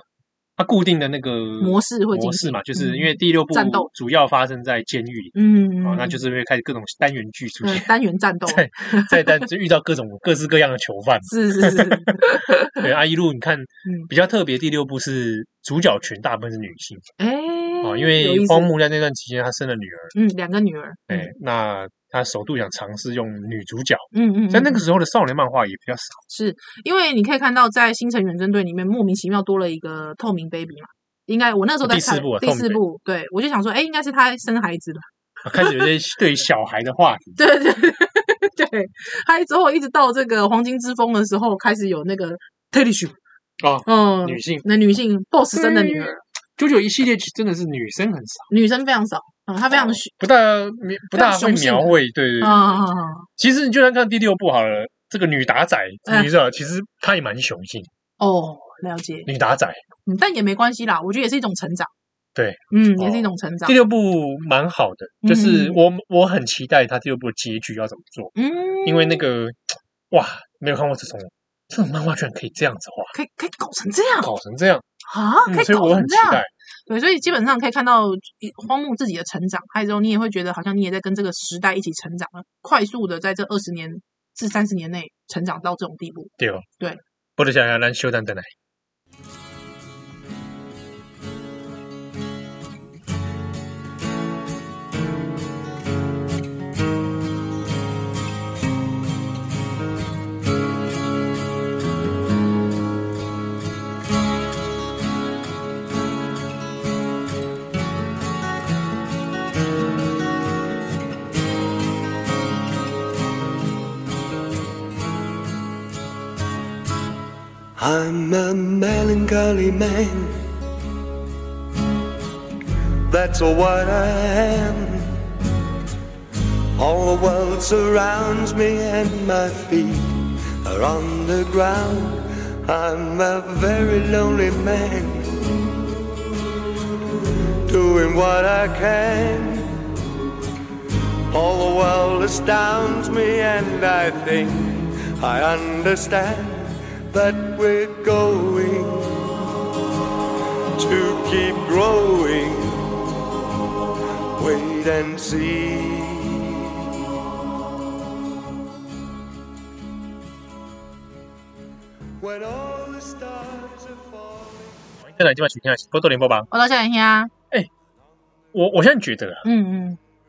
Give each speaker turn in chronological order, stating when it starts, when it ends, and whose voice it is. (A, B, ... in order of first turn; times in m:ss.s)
0:00.6-0:07.9 A
0:01.6-0:03.9 B
0:05.4-0:06.2 B
0:07.6-0:09.4 B
0:08.5-0:17.1 A
0:11.3-0:12.8 B
0:13.8-0:14.1 B
0:17.2-0:18.7 B
0:17.8-0:20.1 A
0:20.1-0:21.3 B
0:21.1-0:26.2 A
0:24.1-0:24.8 B
0:26.3-0:35.9 B
0:31.8-0:32.8 A
0:35.4-0:37.4 A
0:37.4-0:43.2 B
0:43.6-0:44.6 A
0:43.9-0:46.2 B
0:45.5-0:48.5 A
0:48.5-0:50.1 B
0:49.7-0:52.8 A
0:51.1-0:53.3 B
0:53.4-0:57.9 A
0:58.2-0:59.3 B
0:59.3-0:59.8 A
1:00.1-1:01.9 B
1:02.4-1:13.2 A
1:02.7-1:03.8 B
1:05.2-1:05.8 B
1:08.4-1:09.2 B
1:13.1-1:14.3 B
1:14.2-1:14.8 A
1:15.0-1:27.0 B
1:15.5-1:16.5 A
1:26.4-1:26.7 A
1:27.4-1:28.5 A
1:57.8-2:00.5 C
2:03.1-2:05.2 C
2:06.8-2:15.6 C
2:17.6-2:19.8 C
2:21.3-2:29.4 C
2:30.8-2:33.2 C
2:34.4-2:36.7 C
2:42.2-2:44.8 C
2:45.0-2:46.5 A
2:46.5-2:47.3 B
2:48.5-2:49.5 A
2:49.4-2:50.0 B